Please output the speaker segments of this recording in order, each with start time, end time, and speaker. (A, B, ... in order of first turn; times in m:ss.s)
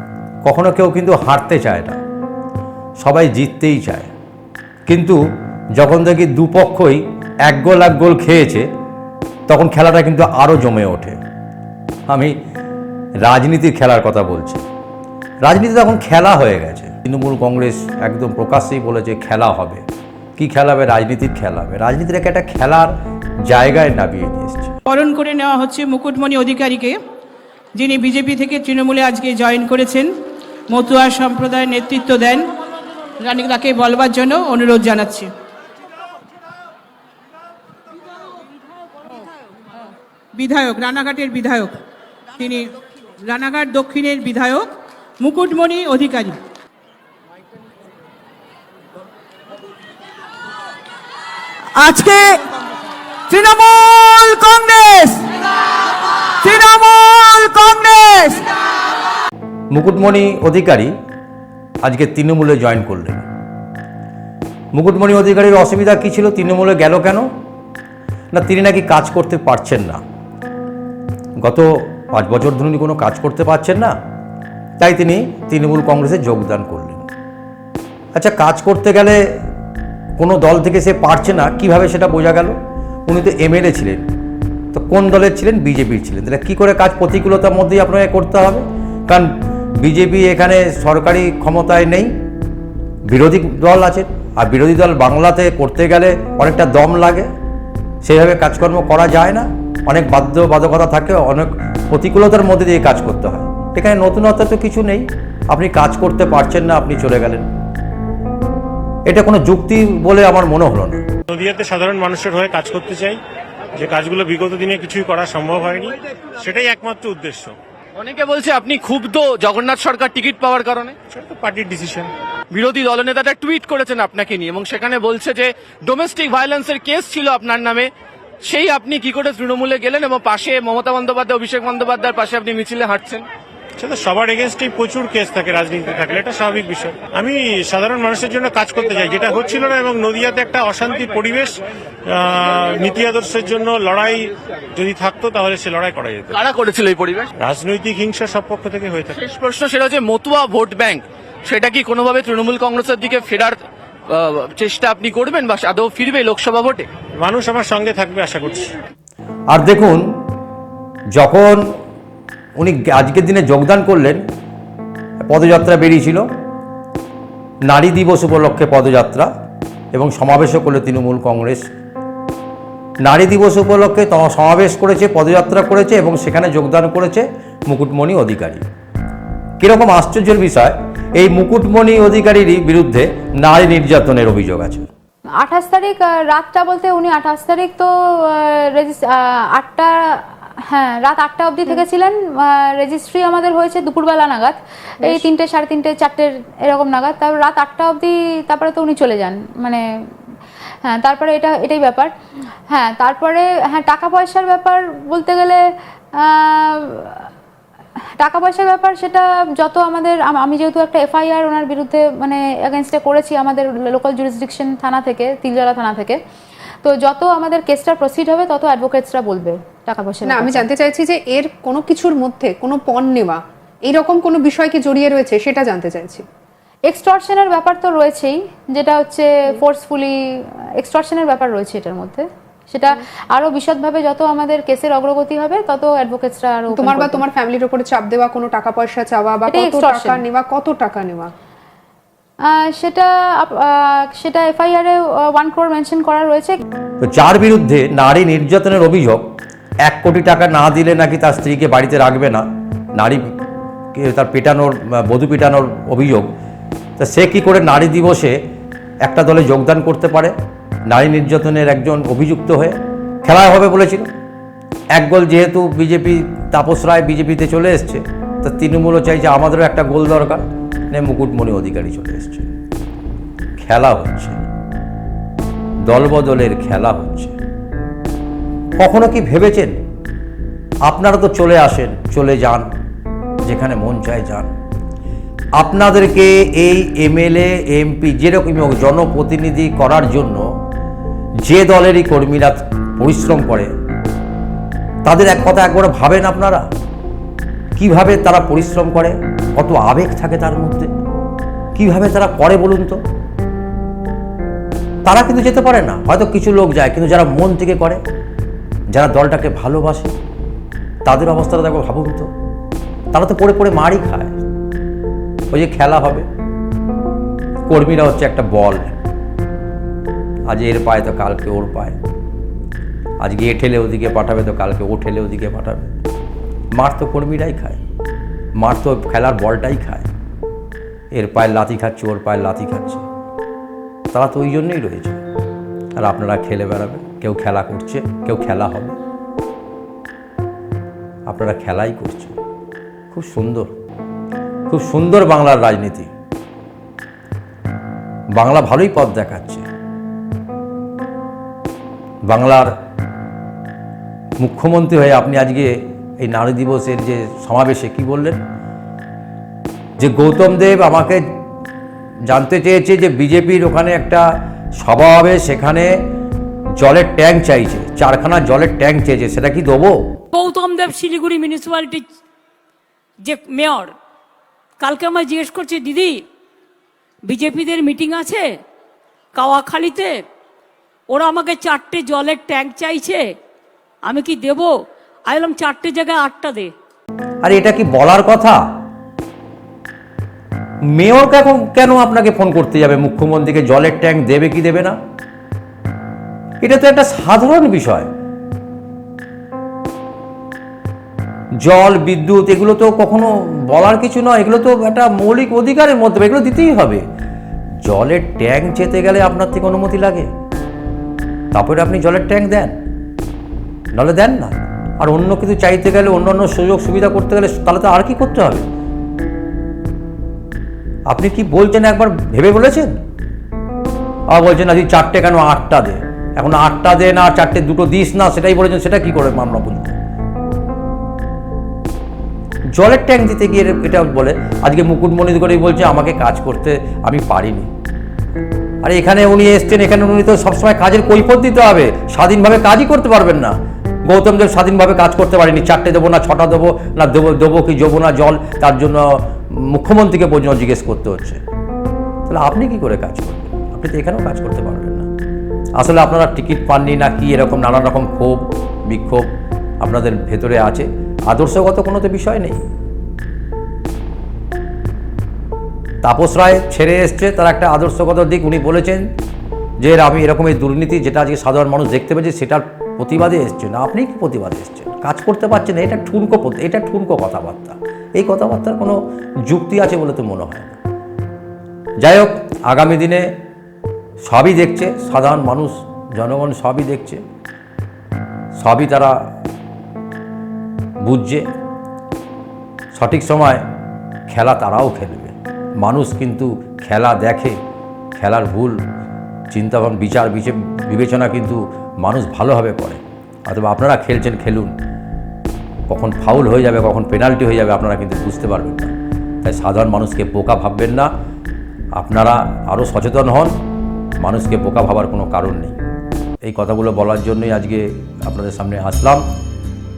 0:00.4-0:02.0 A
0:03.0-0:04.1 A
0:04.9-0:05.2 A
0:05.8-0:08.7 A
0:09.5-0:11.2 A
0:12.1-0:12.4 A
0:13.2-0:14.6 A
0:15.4-0:19.8 A
0:20.4-0:23.0 A
0:23.5-0:24.7 A
0:24.9-0:27.0 B
0:27.8-0:30.1 B
0:30.7-0:32.5 B
0:33.2-0:35.3 B
0:40.3-0:41.8 B
0:42.4-0:42.7 B
0:43.2-0:46.4 B
0:51.8-0:52.4 C
0:53.3-0:55.2 C
0:56.4-0:58.4 C
0:59.7-1:00.9 A
1:01.8-1:03.3 A
1:04.7-1:07.3 A
1:08.3-1:10.0 A
1:11.4-1:14.0 A
1:14.8-1:17.1 A
1:18.2-1:19.2 A
1:20.2-1:22.6 A
1:23.1-1:24.0 A
1:24.7-1:32.1 A
1:33.1-1:37.3 A
1:38.0-1:47.5 A
1:49.1-1:51.0 A
1:51.3-1:53.2 D
1:53.8-1:57.6 D
1:58.0-2:01.0 E
2:01.1-2:02.1 D
2:02.5-2:07.9 E
2:08.4-2:13.3 E
2:13.8-2:26.4 D
2:26.3-2:27.3 E
2:27.4-2:29.2 D
2:29.2-2:36.9 E
2:37.2-2:38.7 D
2:39.5-2:40.1 A
2:41.1-2:41.7 A
2:42.6-2:44.2 A
2:45.3-2:46.3 A
2:47.7-2:49.3 A
2:49.9-2:51.6 A
2:53.0-2:58.6 A
2:59.6-3:04.9 A
3:05.4-3:19.8 F
3:15.0-3:15.3 G
3:20.8-3:22.1 F
3:22.7-3:25.6 F
3:26.2-3:27.3 F
3:28.2-3:36.2 F
3:36.8-3:40.6 F
3:40.3-3:46.2 G
3:46.9-3:50.2 F
3:50.8-3:57.2 F
3:56.7-4:01.3 G
3:59.5-4:00.2 F
4:02.5-4:06.6 F
4:07.0-4:09.2 A
4:09.8-4:12.4 A
4:13.0-4:13.3 A
4:13.9-4:16.3 A
4:17.0-4:18.4 A
4:19.0-4:20.4 A
4:20.9-4:24.1 A
4:25.0-4:32.5 A
4:33.6-4:34.4 A
4:35.9-4:37.4 A
4:38.8-4:39.8 A
4:40.8-4:42.7 A
4:43.4-4:44.5 A
4:45.6-4:50.5 A
4:51.4-4:53.7 A
4:55.0-4:56.7 A
4:57.8-5:00.9 A
5:01.8-5:03.0 A
5:05.0-5:08.0 A
5:08.9-5:10.1 A
5:11.0-5:12.3 A
5:13.1-5:14.4 A
5:15.5-5:16.3 A
5:17.7-5:19.0 A
5:20.5-5:22.0 A
5:23.2-5:25.9 A
5:26.8-5:27.8 A
5:28.6-5:30.1 A
5:31.1-5:33.0 A
5:34.1-5:35.2 A
5:36.0-5:39.0 A
5:41.3-5:42.4 A
5:43.1-5:43.7 A
5:44.7-5:46.1 A
5:48.4-5:49.6 A
5:52.3-5:52.7 A
5:54.4-5:58.4 A
6:00.0-6:01.2 A
6:02.3-6:04.3 A
6:04.8-6:05.9 A
6:06.8-6:10.0 A
6:10.3-6:12.0 H
6:13.2-6:13.9 H
6:14.8-6:16.2 H
6:17.3-6:18.4 H
6:19.4-6:20.2 H
6:21.1-6:23.2 H
6:24.1-6:24.7 H
6:25.3-6:26.7 H
6:27.4-6:28.6 A
6:31.0-6:35.0 A
6:36.6-6:38.1 A
6:41.6-6:47.0 A
6:47.8-6:50.3 A
6:51.5-6:52.7 A
6:53.9-6:58.6 A
7:01.1-7:03.0 A
7:04.3-7:10.0 A
7:12.7-7:17.7 A
7:18.8-7:23.6 A
7:24.1-7:31.4 A
7:32.3-7:35.1 A
7:35.8-7:39.3 A
7:39.8-7:42.6 A
7:46.0-7:49.1 A
7:49.8-8:00.8 A
8:02.0-8:03.3 A
8:04.3-8:07.2 A
8:08.6-8:09.3 A
8:11.0-8:11.5 A
8:12.9-8:13.6 A
8:14.3-8:17.6 A
8:18.2-8:18.8 A
8:19.5-8:24.7 A
8:25.9-8:28.9 A
8:29.4-8:31.1 A
8:32.0-8:33.6 A
8:34.2-8:35.8 A
8:36.4-8:39.2 A